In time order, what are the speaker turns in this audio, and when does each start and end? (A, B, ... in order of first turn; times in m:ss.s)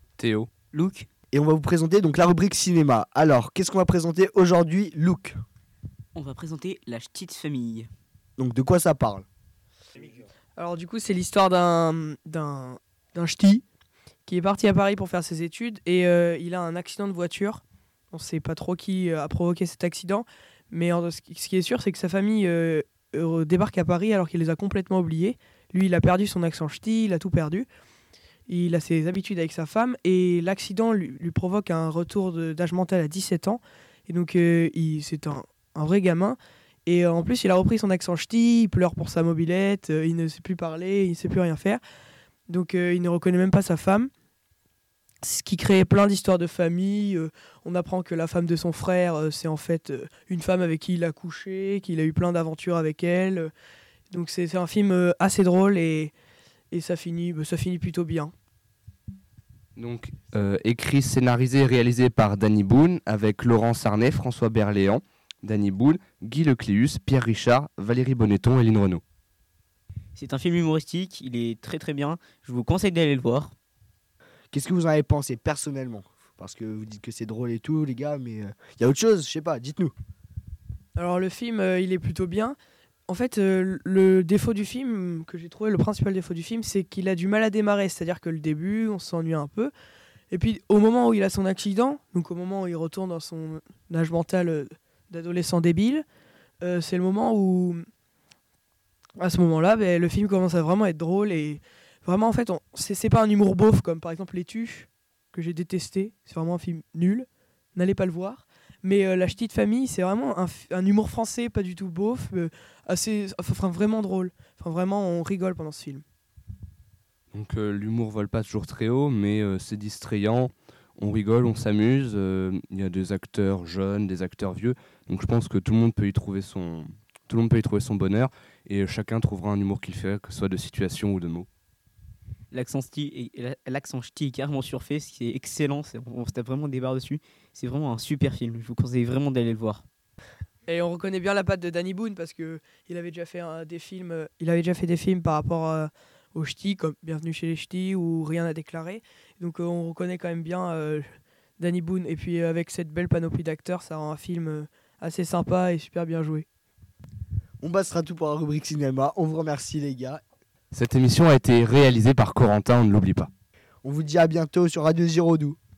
0:00.2-0:00.5 A
0:00.7-0:01.1 B
0:01.3-0:05.4 C
0:06.2-0:07.9 B
0:08.4-0:09.3 C
0:10.6-0:13.6 D
0:14.3-0:27.7 D
0:28.5-0:41.8 D
0:42.5-0:44.1 D
0:45.2-0:53.5 D
0:54.1-0:56.1 D
0:56.7-0:58.3 D
0:59.8-1:09.0 A
1:10.2-1:13.5 B
1:14.5-1:19.9 C
1:21.0-1:22.6 D
1:23.1-1:29.7 D
1:30.3-1:36.0 D
1:36.6-1:37.8 D
1:39.2-1:56.0 D
1:57.3-2:11.5 A
2:12.5-2:19.8 B
2:20.7-2:31.1 D
2:31.6-2:36.5 D
2:37.6-2:40.2 C
2:40.7-2:43.3 A
2:43.8-2:45.6 C